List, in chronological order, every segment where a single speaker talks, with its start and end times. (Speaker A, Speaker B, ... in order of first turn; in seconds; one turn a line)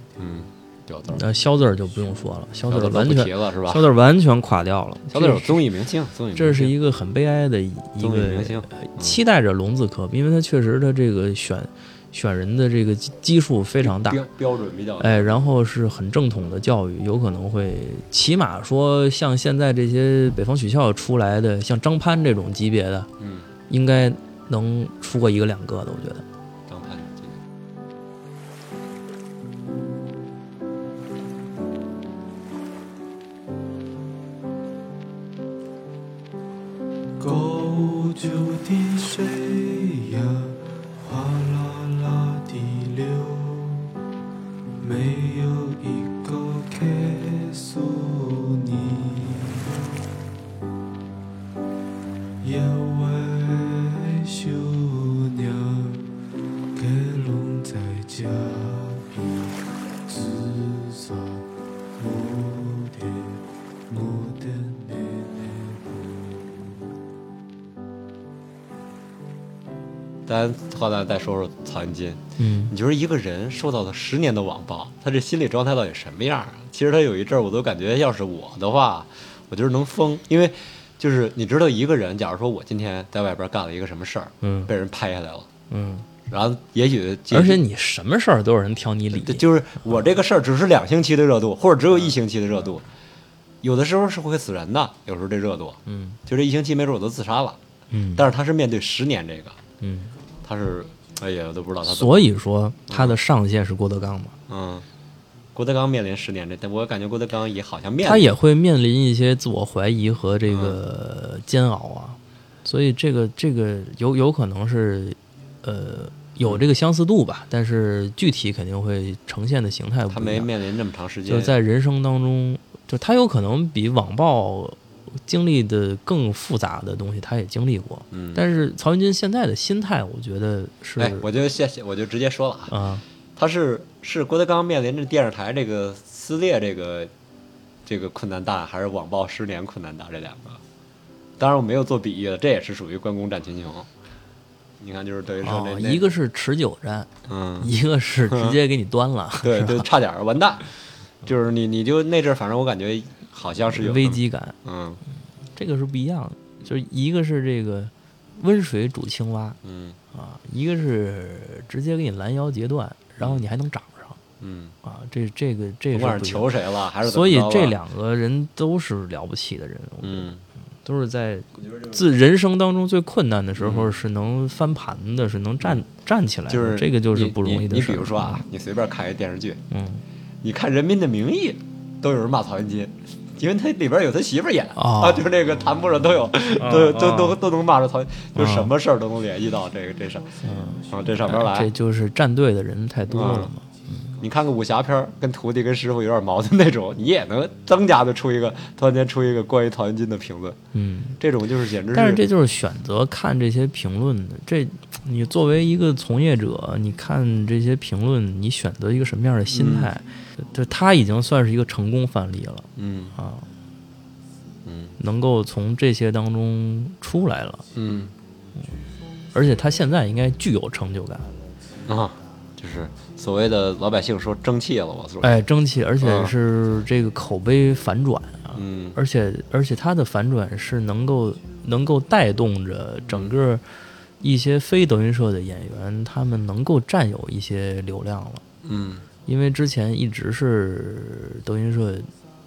Speaker A: 0.2-1.2
Speaker B: 1.1-5.6
Speaker A: 2.7-3.9
Speaker A: 5.1-6.8
Speaker B: 6.3-14.2
Speaker A: 8.0-9.2
Speaker A: 13.8-15.5
Speaker B: 15.0-23.1
Speaker A: 23.2-23.5
Speaker B: 23.7-26.2
Speaker A: 26.7-27.4
Speaker C: 37.2-43.9
Speaker C: 44.8-49.9
Speaker C: 52.4-56.1
Speaker C: 56.7-61.5
Speaker C: 62.0-66.4
Speaker A: 70.2-85.5
Speaker B: 72.4-72.7
Speaker B: 84.4-84.7
Speaker B: 85.7-86.1
Speaker A: 86.3-87.6
Speaker B: 87.3-90.0
Speaker A: 89.1-92.8
Speaker A: 93.6-97.6
Speaker B: 95.9-96.2
Speaker B: 97.9-98.2
Speaker A: 98.1-99.6
Speaker B: 99.8-100.1
Speaker A: 100.4-102.3
Speaker B: 101.8-104.3
Speaker A: 102.9-103.2
Speaker A: 104.5-104.8
Speaker A: 105.5-108.3
Speaker B: 108.0-120.5
Speaker A: 110.5-110.8
Speaker A: 120.1-121.5
Speaker B: 121.2-131.2
Speaker A: 128.1-128.4
Speaker A: 131.0-132.7
Speaker B: 132.7-133.0
Speaker A: 133.3-137.1
Speaker A: 137.8-140.6
Speaker A: 141.4-143.9
Speaker A: 144.8-146.1
Speaker B: 145.4-149.9
Speaker A: 147.3-147.7
Speaker A: 148.3-148.6
Speaker A: 149.4-150.7
Speaker A: 151.2-155.0
Speaker B: 153.7-154.6
Speaker B: 155.5-159.6
Speaker A: 159.6-160.0
Speaker B: 160.1-164.2
Speaker A: 163.2-163.4
Speaker A: 164.4-164.8
Speaker B: 164.8-166.5
Speaker A: 165.9-167.8
Speaker B: 167.0-170.3
Speaker A: 170.0-170.4
Speaker B: 170.8-178.4
Speaker A: 171.6-172.0
Speaker A: 173.6-173.9
Speaker A: 176.5-179.6
Speaker B: 179.7-180.0
Speaker A: 180.4-191.7
Speaker B: 184.8-185.2
Speaker B: 186.6-187.4
Speaker B: 188.3-188.7
Speaker B: 190.4-194.1
Speaker A: 193.1-193.5
Speaker A: 194.2-200.6
Speaker B: 200.7-201.2
Speaker A: 201.2-202.2
Speaker B: 201.9-213.5
Speaker A: 209.5-209.9
Speaker A: 212.8-213.2
Speaker A: 214.6-214.9
Speaker B: 215.0-217.6
Speaker A: 217.7-218.1
Speaker B: 219.3-221.3
Speaker A: 221.8-225.4
Speaker B: 225.2-233.6
Speaker A: 226.0-226.3
Speaker A: 228.5-229.0
Speaker B: 234.2-238.4
Speaker A: 238.6-239.1
Speaker B: 239.3-242.1